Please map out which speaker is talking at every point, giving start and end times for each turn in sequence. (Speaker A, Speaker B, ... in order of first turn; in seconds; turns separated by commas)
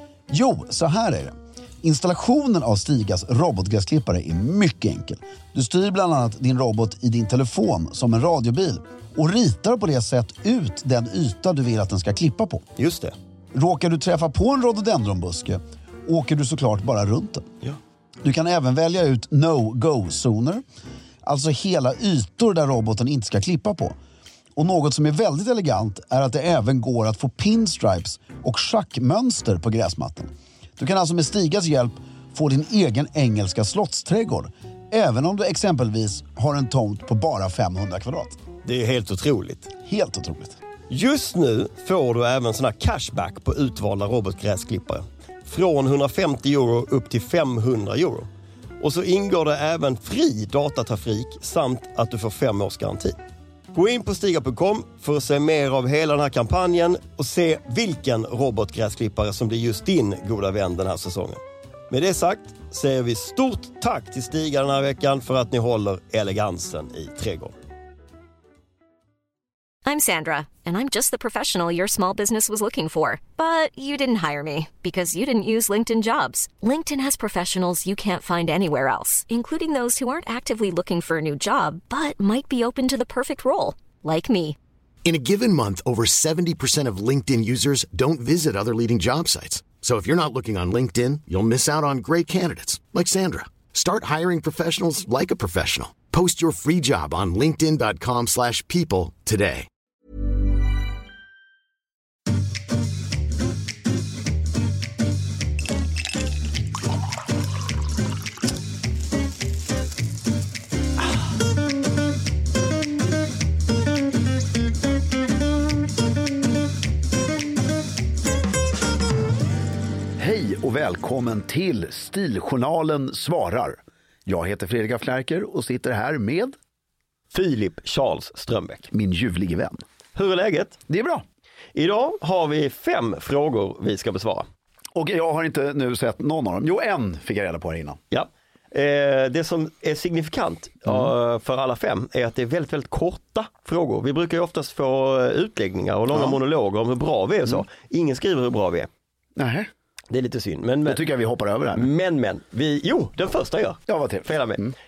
Speaker A: 0.3-12.6, Speaker B: 12.8-13.1, Speaker A: 13.5-17.4, Speaker A: 18.2-20.6, Speaker A: 21.2-23.9, Speaker A: 24.6-38.4, Speaker B: 38.6-39.7, Speaker A: 39.8-40.6, Speaker B: 40.9-48.3, Speaker B: 48.8-53.2, Speaker B: 53.7-67.5, Speaker C: 69.8-84.6, Speaker D: 85.0-99.7, Speaker A: 120.2-126.5, Speaker B: 127.3-128.9, Speaker A: 128.9-129.8, Speaker B: 130.1-130.8, Speaker A: 130.9-131.2, Speaker B: 131.7-134.4, Speaker A: 134.9-138.0, Speaker B: 138.1-148.9, Speaker A: 146.1-146.4, Speaker A: 149.3-149.7, Speaker B: 150.1-151.0, Speaker A: 150.8-151.8, Speaker B: 151.7-154.6, Speaker A: 153.9-154.7